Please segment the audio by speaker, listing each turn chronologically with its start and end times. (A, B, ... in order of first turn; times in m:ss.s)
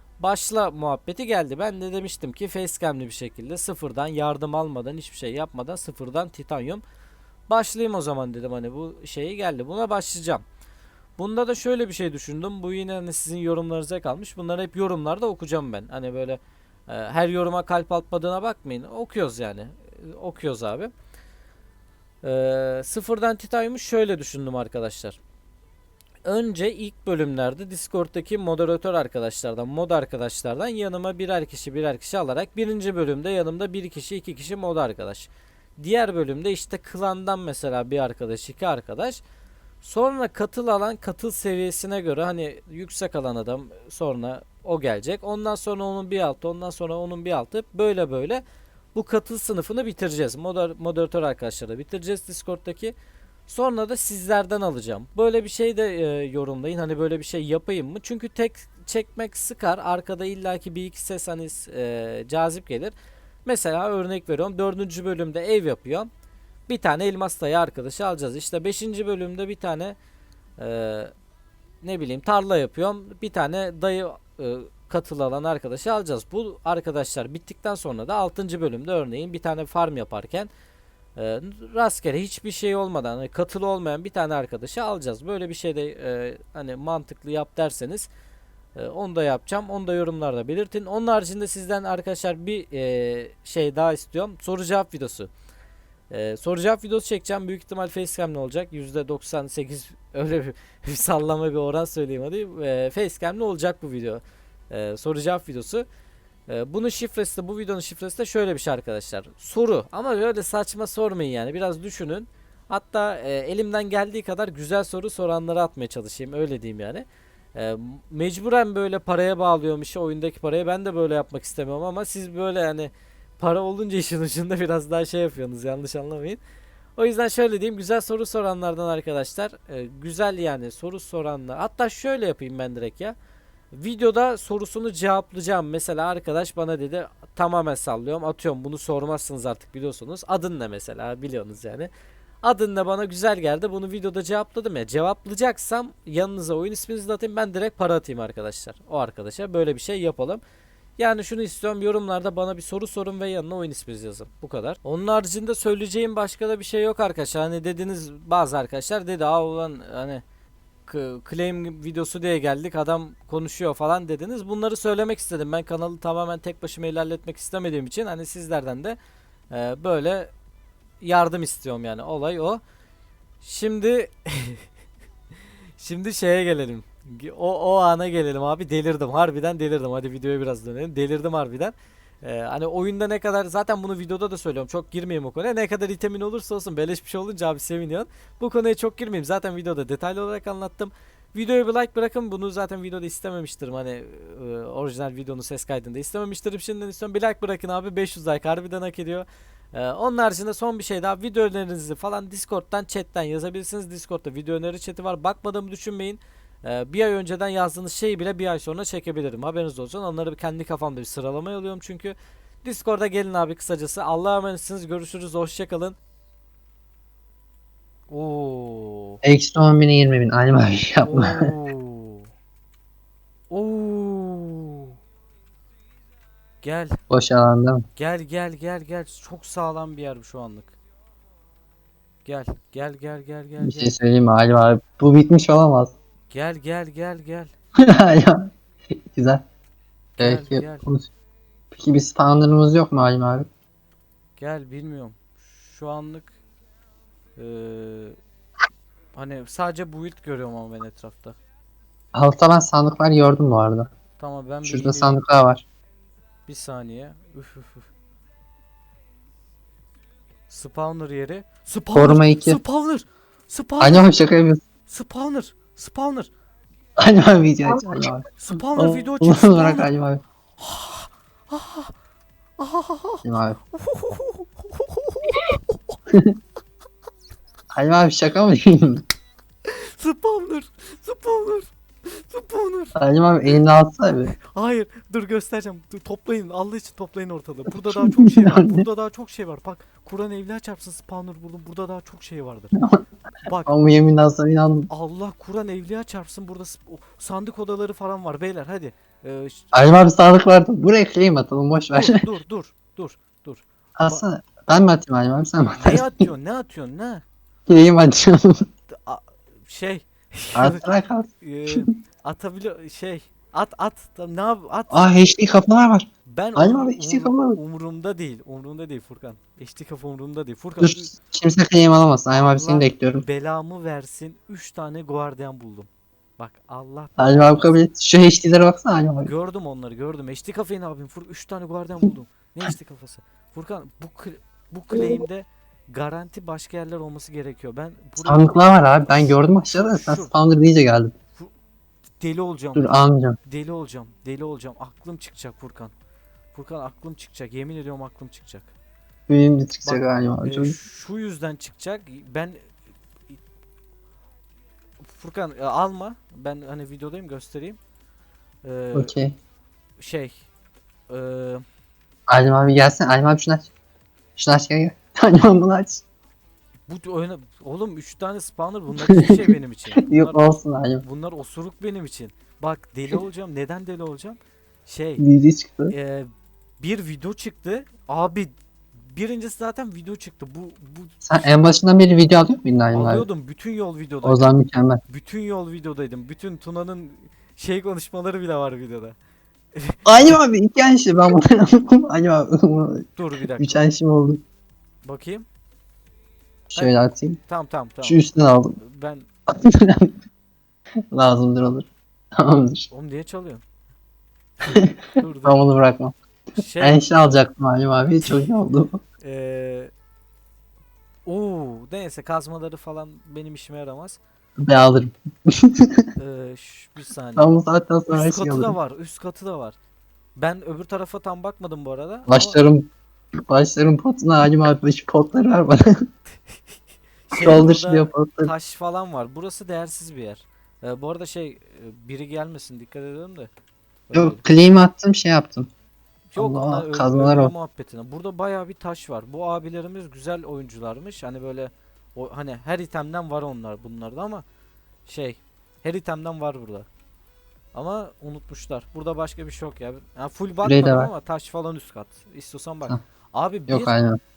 0:00.2-0:06.8 A
0:07.5-0:10.4 A
0:11.2-0:20.9 A
0:22.2-0:25.2 A
0:26.2-0:39.2 A
0:39.8-0:48.4 A
0:48.9-0:53.0 A
0:53.5-1:02.9 A
1:03.4-1:06.1 A
1:06.7-1:10.0 A
1:10.6-1:11.1 A
1:11.8-1:20.5 A
1:21.2-1:28.1 A
1:28.8-1:35.3 A
1:36.1-1:45.9 A
1:46.5-2:06.4 A
2:07.0-2:13.2 A
2:13.7-2:21.9 A
2:22.4-2:30.4 A
2:31.0-2:40.2 A
2:40.9-2:49.0 A
2:49.5-2:50.3 A
2:51.0-2:52.6 A
2:53.4-2:54.7 A
2:55.8-3:36.0 A
3:38.1-3:39.2 A
3:39.2-3:41.5 B
3:41.0-3:42.3 A
3:43.5-3:45.0 A
3:46.6-3:47.0 A
3:47.1-3:47.8 B
3:48.0-3:50.8 A
3:52.2-3:53.9 A
3:53.6-3:55.9 B
3:56.3-3:57.5 A
3:57.8-3:58.5 B
3:59.1-3:59.4 B
4:00.2-4:00.9 A
4:00.2-4:01.1 B
4:01.7-4:03.5 B
4:04.4-4:06.4 A
4:07.4-4:08.2 A
4:09.1-4:11.4 A
4:12.1-4:13.9 B
4:14.2-4:15.2 A
4:14.6-4:15.6 B
4:16.5-4:17.9 A
4:20.5-4:24.1 A
4:21.9-4:22.6 B
4:23.8-4:24.6 B
4:24.9-4:26.3 A
4:27.0-4:30.2 B
4:28.4-4:29.9 A
4:30.6-4:31.9 A
4:32.6-4:36.0 A
4:33.2-4:33.6 B
4:36.1-4:36.4 B
4:37.7-4:39.0 B
4:39.6-4:43.0 A
4:43.0-4:44.3 B
4:44.4-4:52.8 A
4:47.8-4:48.9 B
4:52.8-4:53.0 B
4:53.4-4:53.7 A
4:53.6-4:54.9 B
4:54.9-4:59.7 A
4:59.7-5:02.3 B
5:02.0-5:04.2 A
5:04.0-5:06.1 B
5:05.8-5:07.2 A
5:07.7-5:08.7 B
5:08.9-5:10.8 A
5:10.6-5:11.9 B
5:11.4-5:15.2 A
5:14.9-5:17.6 B
5:16.3-5:21.2 A
5:20.8-5:23.2 B
5:22.3-5:27.8 A
5:27.2-5:29.3 B
5:29.2-5:38.6 A
5:38.2-5:41.2 B
5:39.3-5:40.4 A
5:42.2-5:45.9 A
5:42.8-5:43.4 B
5:46.5-5:48.7 A
5:49.3-5:50.8 B
5:49.8-5:52.6 A
5:55.1-5:57.8 A
5:58.6-5:59.1 A
5:59.0-5:59.4 B
6:00.0-6:00.5 A
6:01.1-6:01.6 A
6:02.3-6:03.7 B
6:04.4-6:06.0 B
6:06.9-6:10.4 A
6:09.0-6:09.5 B
6:10.0-6:11.0 B
6:11.0-6:15.2 A
6:15.2-6:15.9 B
6:15.9-6:16.3 A
6:16.8-6:21.6 A
6:21.2-6:23.3 B
6:22.9-6:24.6 A
6:24.2-6:25.0 B
6:25.1-6:29.2 A
6:29.8-6:30.4 A
6:30.1-6:34.4 B
6:33.2-6:33.8 A
6:35.0-6:35.5 A
6:36.7-6:37.4 B
6:36.8-6:38.2 A
6:38.0-6:38.8 B
6:38.8-6:39.3 A
6:39.5-6:40.1 B
6:41.1-6:42.9 B
6:42.9-6:43.6 A
6:44.6-6:45.7 A
6:44.7-6:46.2 B
6:46.6-6:47.1 A
6:46.8-6:49.0 B
6:48.2-6:48.5 A
6:49.2-6:49.9 A
6:51.3-6:54.2 A
6:54.6-6:56.1 B
6:56.2-6:57.6 A
6:57.4-6:58.8 B
6:58.1-6:59.8 A
7:00.4-7:02.6 A
7:02.3-7:02.9 B
7:03.5-7:05.9 B
7:07.3-7:13.5 A
7:07.4-7:08.5 B
7:14.1-7:14.4 A
7:14.1-7:15.7 B
7:16.3-7:24.4 A
7:16.4-7:17.5 B
7:25.1-7:26.9 A
7:27.7-7:34.0 A
7:30.6-7:31.1 B
7:33.7-7:34.2 B